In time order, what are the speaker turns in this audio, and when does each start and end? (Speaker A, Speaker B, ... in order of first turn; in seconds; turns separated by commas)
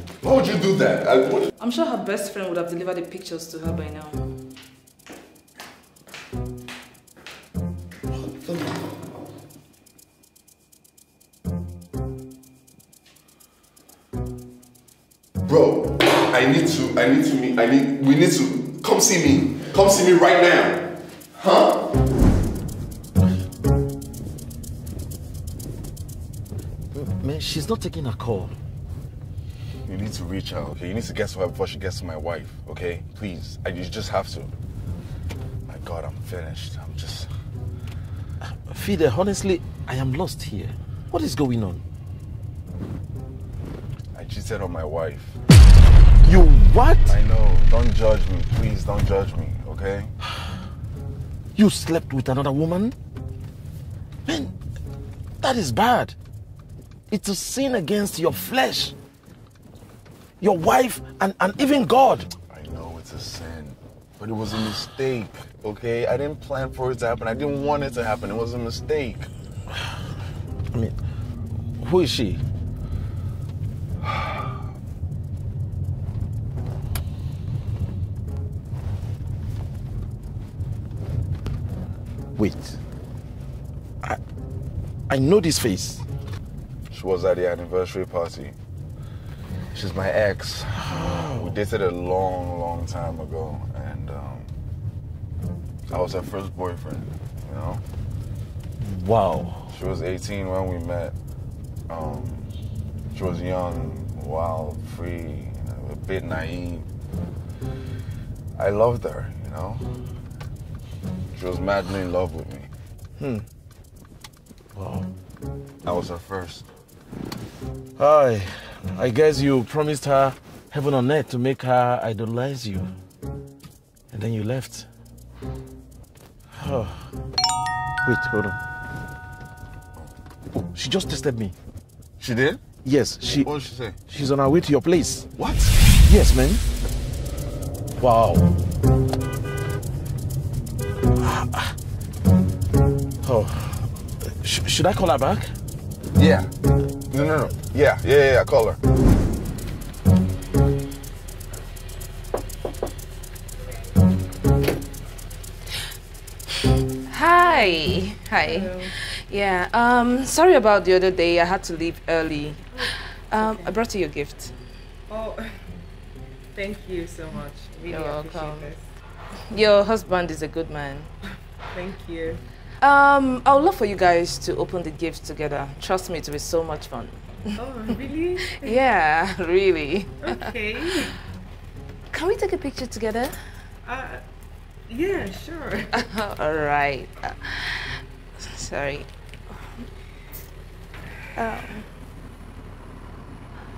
Speaker A: 0.2-1.5, Speaker B: 1.6-4.2, Speaker A: 8.2-8.7, Speaker A: 15.4-21.9, Speaker C: 26.9-28.5, Speaker A: 29.9-34.5, Speaker A: 35.7-37.3, Speaker C: 38.4-41.8, Speaker A: 44.1-45.4, Speaker C: 46.2-47.1, Speaker A: 47.0-50.1, Speaker C: 51.5-53.0, Speaker C: 54.2-54.5, Speaker C: 55.4-56.1, Speaker C: 57.1-58.9, Speaker C: 60.4-62.3, Speaker A: 62.5-69.3, Speaker C: 71.8-72.4, Speaker C: 82.3-82.8, Speaker C: 85.1-86.0, Speaker A: 86.9-88.6, Speaker A: 89.7-94.5, Speaker C: 90.8-91.5, Speaker A: 95.9-97.8, Speaker C: 98.8-99.7, Speaker A: 99.7-101.2, Speaker A: 101.9-102.5, Speaker A: 103.1-106.9, Speaker A: 108.5-109.8, Speaker A: 111.3-112.7, Speaker C: 113.2-113.4, Speaker C: 114.7-115.1, Speaker A: 115.8-116.7, Speaker C: 118.0-122.9, Speaker C: 124.1-124.8, Speaker C: 126.5-127.1, Speaker C: 128.0-128.6, Speaker C: 130.5-131.5, Speaker A: 132.2-132.6, Speaker C: 132.8-133.6, Speaker A: 133.4-134.0, Speaker C: 134.1-135.3, Speaker A: 135.4-135.8, Speaker C: 136.0-136.6, Speaker C: 138.0-138.5, Speaker C: 141.2-141.7, Speaker C: 143.2-145.5, Speaker A: 146.2-146.5, Speaker A: 147.1-148.8, Speaker B: 157.1-164.5, Speaker D: 157.5-157.7, Speaker D: 158.4-158.9, Speaker D: 162.7-163.8, Speaker D: 165.1-165.5, Speaker D: 166.5-168.9, Speaker B: 167.8-168.7, Speaker B: 169.5-171.1, Speaker D: 171.7-172.4, Speaker B: 172.8-177.2, Speaker D: 177.6-178.8, Speaker B: 178.5-181.1, Speaker D: 180.2-181.1, Speaker B: 182.1-183.4, Speaker D: 183.8-184.2, Speaker D: 184.9-186.1, Speaker B: 185.9-189.1, Speaker B: 191.3-191.8